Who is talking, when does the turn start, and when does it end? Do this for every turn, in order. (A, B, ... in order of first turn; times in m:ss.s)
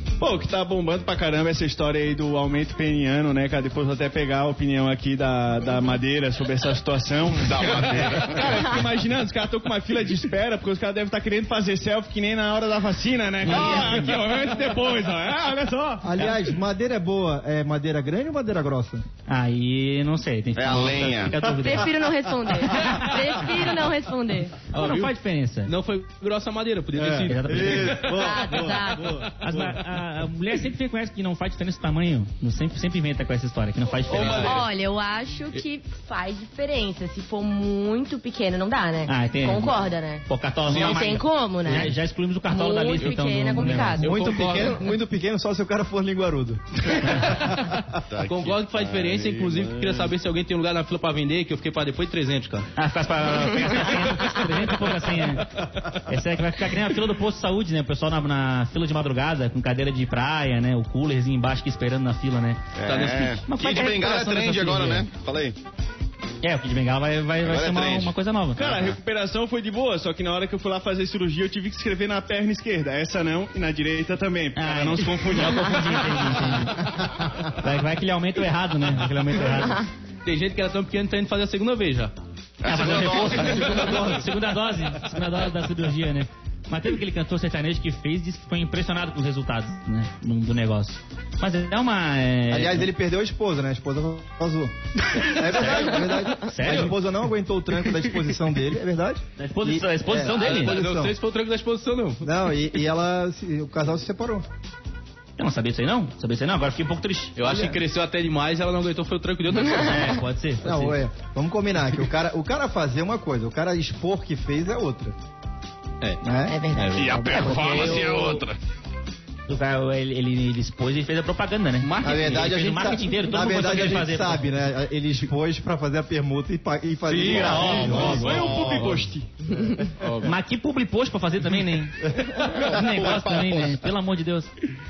0:00.2-0:16.4 A
0:07.3-0:08.7 B
0:13.4-0:14.2 C
0:16.0-0:19.1 D
0:19.3-0:21.9 C
0:20.6-0:21.4 B
0:21.5-0:24.6 E
0:22.7-0:23.2 C
0:24.7-0:25.7 C
0:24.7-0:25.1 F
0:25.6-0:28.3 F
0:27.0-0:29.3 D
0:27.3-0:28.2 C
0:28.1-0:29.2 E
0:29.3-0:34.6 C
0:34.1-0:34.7 F
0:34.1-0:34.4 B
0:34.3-0:44.8 E
0:39.1-0:44.0 C
0:40.7-0:41.2 F
0:44.0-0:44.8 F
0:44.0-0:47.8 D
0:47.0-0:47.3 C
0:47.9-0:50.1 B
0:48.3-0:52.7 F
0:52.8-1:02.6 C
1:02.8-1:05.6 B
1:02.9-1:03.4 F
1:03.5-1:05.1 C
1:06.4-1:08.9 C
1:07.4-1:08.9 B
1:08.6-1:16.4 A
1:14.6-1:16.9 C
1:17.5-1:19.9 C
1:20.2-1:22.1 F
1:22.6-1:24.2 B
1:22.6-1:32.9 C
1:23.6-1:24.2 D
1:32.5-1:41.2 D
1:35.5-1:36.9 C
1:39.4-1:40.8 C
1:40.2-1:42.3 F
1:42.2-1:44.4 D
1:45.4-1:47.7 C
1:47.4-1:50.2 F
1:49.7-1:51.0 C
1:50.6-1:55.2 D
1:56.2-1:56.6 D
1:56.5-1:58.4 E
1:56.7-1:57.2 F
1:56.9-1:58.6 B
1:57.3-1:58.2 C
1:59.5-2:04.4 C
2:01.8-2:04.3 F
2:02.0-2:08.5 D
2:07.1-2:09.0 F
2:07.2-2:09.0 B
2:07.4-2:09.3 A
2:07.6-2:08.1 C
2:10.0-2:10.4 F
2:10.2-2:14.5 C
2:12.5-2:13.8 B